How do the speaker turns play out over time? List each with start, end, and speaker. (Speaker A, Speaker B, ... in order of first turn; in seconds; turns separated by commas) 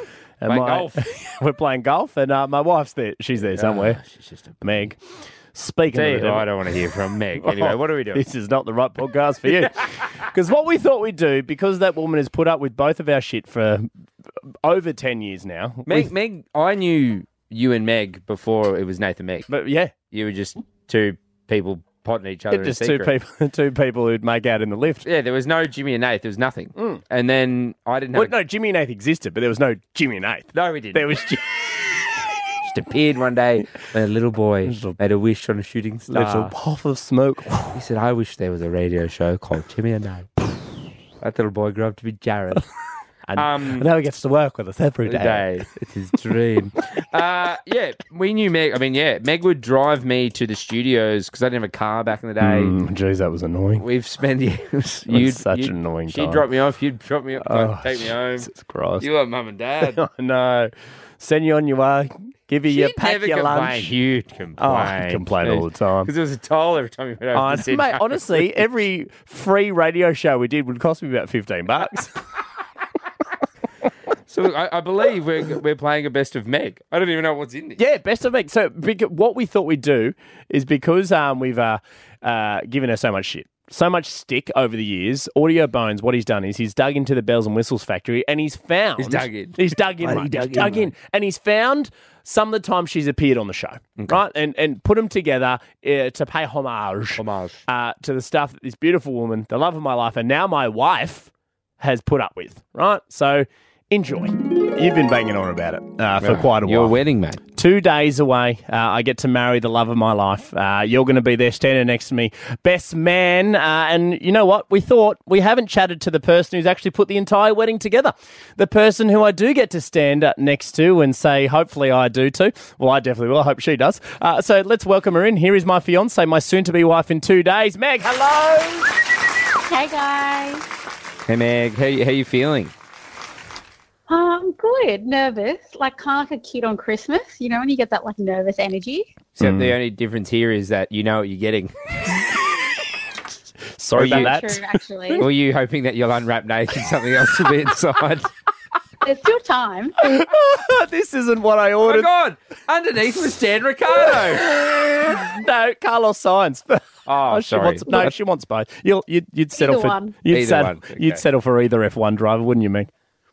Speaker A: 0.4-4.0, Speaker B: 0.5-1.0, Speaker B: 3.5-4.8, Speaker A: 4.6-5.0, Speaker A: 5.5-6.5, Speaker B: 5.9-8.2, Speaker A: 7.4-13.9, Speaker A: 14.6-16.1, Speaker B: 15.8-19.5, Speaker A: 19.5-19.9, Speaker B: 20.1-23.1, Speaker A: 22.5-25.0, Speaker B: 25.0-28.3, Speaker A: 26.8-27.0, Speaker A: 28.1-31.6, Speaker B: 30.5-31.2, Speaker B: 32.6-36.5, Speaker A: 34.6-35.0, Speaker A: 36.1-37.8, Speaker B: 37.7-40.3, Speaker B: 41.2-42.6, Speaker A: 43.3-45.5, Speaker B: 43.3-43.9, Speaker B: 45.0-52.8, Speaker A: 52.4-53.8, Speaker B: 53.8-58.5, Speaker A: 55.1-56.4, Speaker A: 57.4-59.1, Speaker B: 59.0-60.0, Speaker A: 59.8-63.9, Speaker B: 62.7-68.2, Speaker A: 64.6-66.1, Speaker A: 67.3-72.1, Speaker B: 74.3-77.8, Speaker A: 77.8-106.9, Speaker B: 89.0-90.9, Speaker B: 97.2-97.6, Speaker B: 106.2-107.4, Speaker A: 107.5-128.9, Speaker C: 129.7-130.6, Speaker B: 131.3-132.7, Speaker C: 134.1-139.1, Speaker B: 139.3-141.7, Speaker A: 139.4-139.8, Speaker A: 143.8-144.6, Speaker B: 143.9-144.4, Speaker C: 144.0-145.2, Speaker B: 145.2-148.3, Speaker C: 149.0-149.9, Speaker A: 150.0-152.1, Speaker B: 151.8-154.4, Speaker A: 154.1-162.9, Speaker B: 157.1-158.0, Speaker C: 159.6-160.1, Speaker B: 160.3-161.2